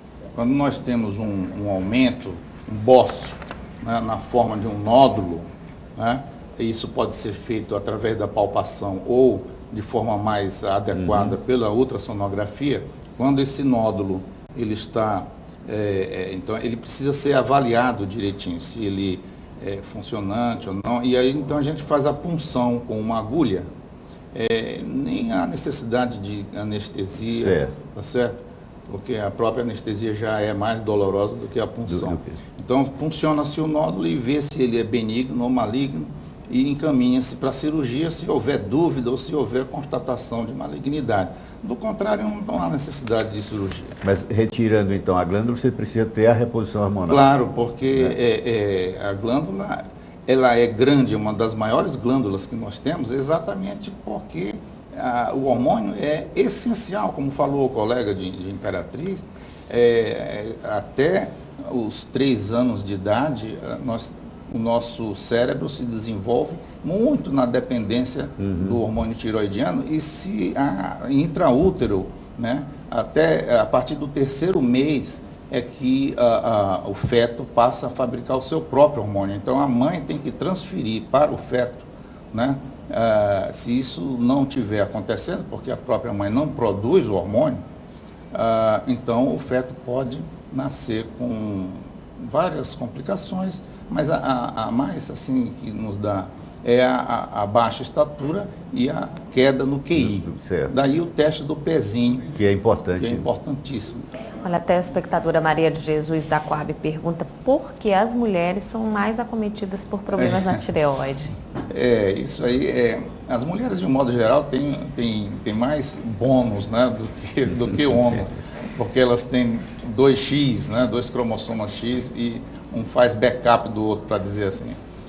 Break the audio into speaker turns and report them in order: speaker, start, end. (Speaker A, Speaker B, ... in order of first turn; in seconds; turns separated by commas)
Speaker A: 0.3-23.7, Speaker B: 10.9-11.4, Speaker A: 24.3-44.0, Speaker B: 27.3-27.7, Speaker B: 31.9-32.4, Speaker B: 44.0-47.3, Speaker A: 47.1-87.6, Speaker B: 68.4-68.8, Speaker A: 88.3-102.3, Speaker B: 100.0-100.7, Speaker B: 102.3-103.3, Speaker A: 103.0-104.1, Speaker C: 104.4-111.3, Speaker A: 111.7-124.8